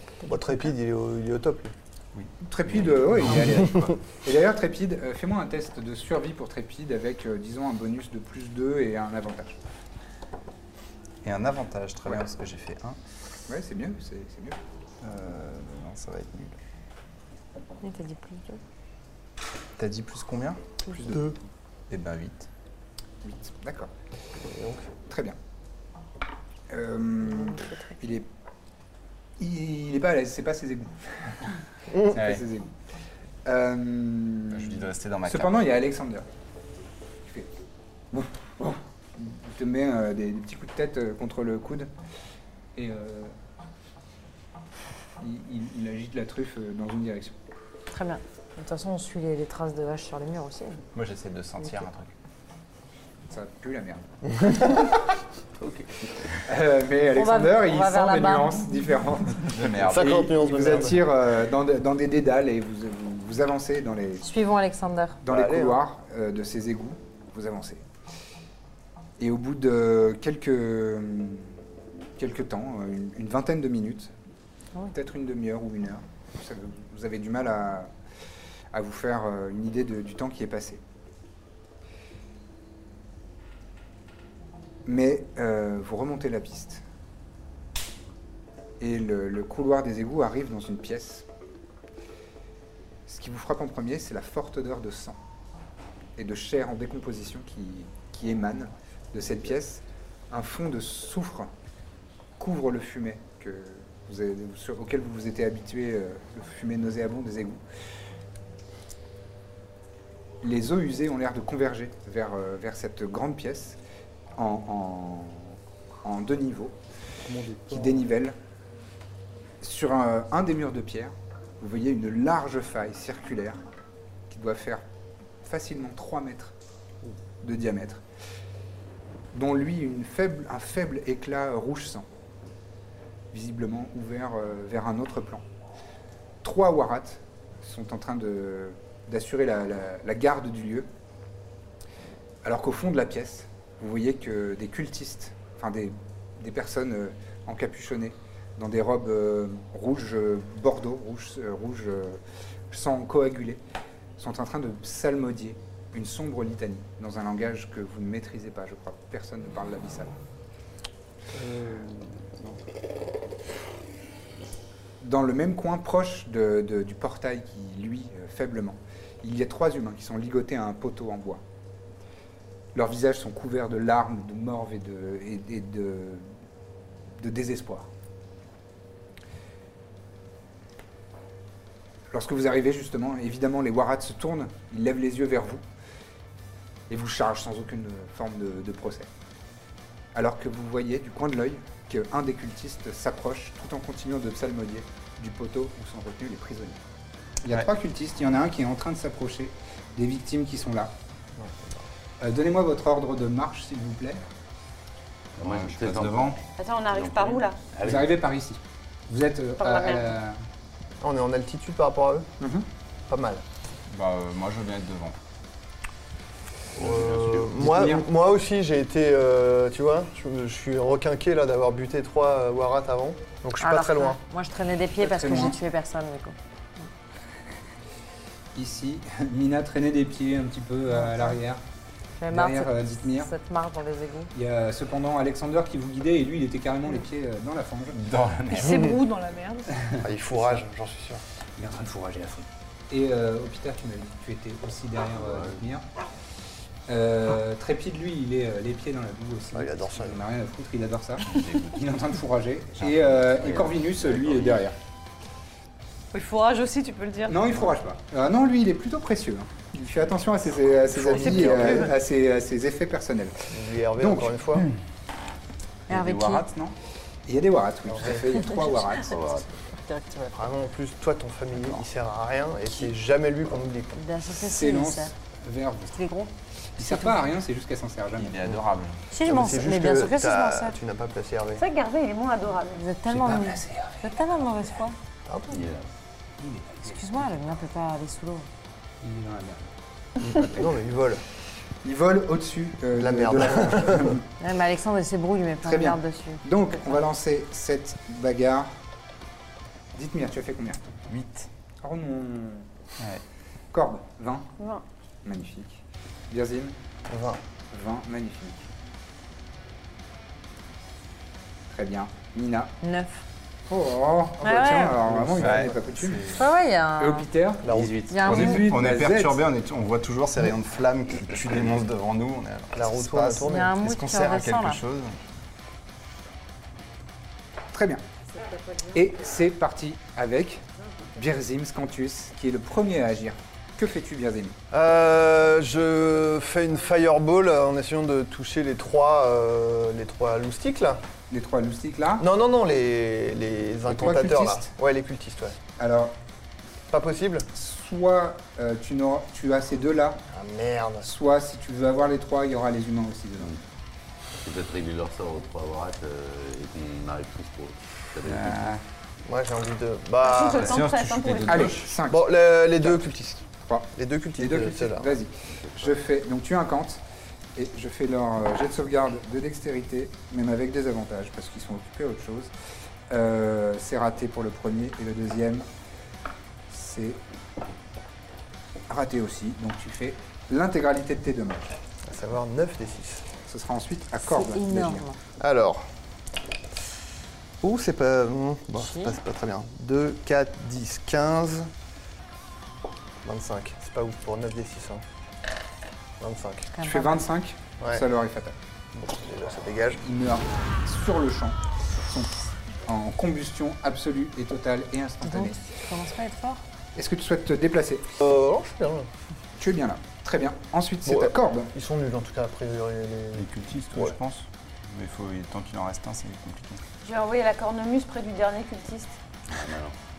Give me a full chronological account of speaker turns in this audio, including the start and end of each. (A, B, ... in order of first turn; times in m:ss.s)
0:00.2-0:01.7 A
0:02.1-0:03.6 B
0:02.4-0:09.6 C
0:03.3-0:03.9 A
0:11.2-0:13.0 B
0:13.5-0:14.6 C
0:15.0-0:16.5 B
0:17.8-0:18.6 D
0:19.8-0:20.6 B
0:20.9-0:21.4 C
0:21.9-0:22.5 B
0:23.2-0:23.9 C
0:24.4-0:24.9 A
0:25.1-0:25.4 C
0:26.7-0:28.3 C
0:27.4-0:27.8 D
0:29.4-0:32.7 C
0:31.9-0:32.2 A
0:32.1-0:32.4 B
0:33.4-0:36.3 C
0:34.5-0:35.6 B
0:38.1-0:41.9 C
0:42.7-0:43.3 C
0:45.2-0:47.3 C
0:47.9-0:50.8 D
0:50.9-0:52.1 B
0:53.3-0:54.9 C
0:55.6-0:56.4 E
0:56.4-1:04.2 C
0:57.1-0:58.9 D
0:59.5-1:00.3 B
0:59.8-1:01.0 A
1:04.2-1:05.2 D
1:05.2-1:07.8 C
1:05.2-1:05.8 A
1:09.2-1:11.5 C
1:12.2-1:14.1 C
1:14.9-1:17.9 C
1:18.7-1:20.8 C
1:24.8-1:26.8 C
1:28.8-1:31.2 C
1:33.1-1:35.2 C
1:36.2-1:41.5 C
1:42.4-1:47.6 C
1:50.4-1:53.8 C
1:54.4-1:56.8 C
1:57.3-1:57.9 A
1:57.7-1:58.4 C
1:59.6-2:03.6 C
2:04.3-2:04.8 C
2:05.4-2:06.5 C
2:07.4-2:08.0 C
2:09.3-2:12.0 C
2:13.3-2:15.4 C
2:16.4-2:20.9 C
2:22.4-2:33.6 C
2:34.2-2:40.1 C
2:41.3-2:42.6 C
2:45.0-2:51.4 C
2:52.7-2:56.2 C
2:57.2-2:57.9 C
3:02.1-3:05.6 C
3:06.9-3:09.1 C
3:10.1-3:16.8 C
3:17.4-3:20.9 C
3:21.4-3:21.9 A
3:22.2-3:24.2 C
3:25.4-3:28.1 E
3:25.4-3:26.4 B
3:26.6-3:27.6 F
3:27.8-3:30.4 C
3:29.6-3:30.1 F
3:31.0-3:32.3 A
3:32.4-3:32.7 C
3:33.1-3:33.4 A
3:33.9-3:35.2 B
3:36.8-3:37.6 E
3:36.8-3:44.2 A
3:37.6-3:38.0 C
3:43.6-3:46.8 D
3:45.0-3:45.6 C
3:48.5-3:51.6 C
3:51.0-3:51.4 D
3:52.2-3:54.3 D
3:52.3-3:53.3 C
3:54.3-3:58.0 C
3:57.9-3:58.8 B
3:58.5-3:59.8 F
3:59.8-4:00.6 C
4:00.0-4:01.2 A
4:01.6-4:05.8 C
4:06.9-4:14.8 C
4:09.5-4:10.2 A
4:13.4-4:14.6 E
4:16.1-4:17.5 F
4:17.3-4:23.4 C
4:20.9-4:22.0 A
4:23.5-4:24.7 A
4:24.0-4:24.4 C
4:25.9-4:26.5 D
4:25.9-4:26.7 B
4:27.3-4:29.3 C
4:27.9-4:28.2 A
4:28.4-4:29.2 D
4:29.0-4:29.4 E
4:29.8-4:30.3 D
4:30.3-4:34.0 A
4:33.9-4:35.1 D
4:34.4-4:36.0 C
4:35.9-4:37.2 D
4:36.8-4:38.6 C
4:38.1-4:39.0 B
4:39.1-4:40.8 D
4:39.2-4:41.6 A
4:41.6-4:42.8 F
4:42.8-4:45.0 D
4:43.1-4:44.5 C
4:45.2-4:45.7 A
4:45.5-4:45.9 E
4:46.4-4:47.3 C
4:46.8-4:48.5 D
4:49.0-4:49.7 C
4:50.2-4:50.8 C
4:50.2-4:51.2 A
4:51.8-4:54.2 C
4:53.0-4:54.2 A
4:54.4-4:56.4 D
4:55.6-4:58.7 C
4:59.9-5:00.8 C
5:01.1-5:01.5 B
5:01.8-5:02.6 C
5:03.7-5:04.5 C
5:04.6-5:04.8 F
5:05.2-5:06.7 C
5:07.1-5:07.4 A
5:07.7-5:08.7 C
5:11.7-5:12.7 C
5:12.8-5:13.2 D
5:13.7-5:16.3 C
5:14.4-5:15.0 D
5:15.1-5:15.6 A
5:15.3-5:16.4 B
5:16.3-5:17.3 D
5:17.0-5:17.7 C
5:17.6-5:18.0 A
5:17.6-5:18.2 E
5:18.1-5:18.7 D
5:18.2-5:25.2 B
5:18.2-5:19.4 C
5:22.7-5:23.7 A
5:23.4-5:24.8 D
5:27.7-5:28.0 C
5:28.9-5:30.6 C
5:31.1-5:34.5 C
5:34.7-5:41.0 A
5:41.3-5:42.2 C
5:42.2-5:45.6 A
5:43.9-5:44.7 C
5:45.8-5:46.1 C
5:46.9-5:47.5 A
5:47.5-5:50.2 C
5:50.3-5:51.1 A
5:51.0-5:53.5 C
5:54.4-5:58.8 E
5:58.2-5:58.8 B
5:59.2-6:00.8 A
6:00.2-6:01.8 F
6:00.6-6:01.9 B
6:01.5-6:03.0 C
6:02.1-6:05.2 A
6:03.6-6:07.0 C
6:05.6-6:05.9 E
6:07.6-6:12.5 C
6:13.1-6:15.6 C
6:16.7-6:17.2 C
6:18.9-6:21.7 C
6:22.0-6:23.2 A
6:23.5-6:25.0 C
6:24.2-6:25.2 D
6:25.4-6:25.8 A
6:27.6-6:31.7 A
6:28.8-6:29.2 D
6:33.2-6:35.0 A
6:36.2-6:36.7 A
6:36.7-6:37.2 D
6:36.8-6:38.6 C
6:38.9-6:40.0 A
6:40.0-6:45.6 C
6:45.2-6:46.6 D
6:46.9-6:48.1 C
6:48.2-6:49.1 A
6:49.6-6:51.7 C
6:51.0-6:54.2 A
6:53.3-6:56.8 B
6:57.0-6:59.2 F
6:59.5-6:59.9 E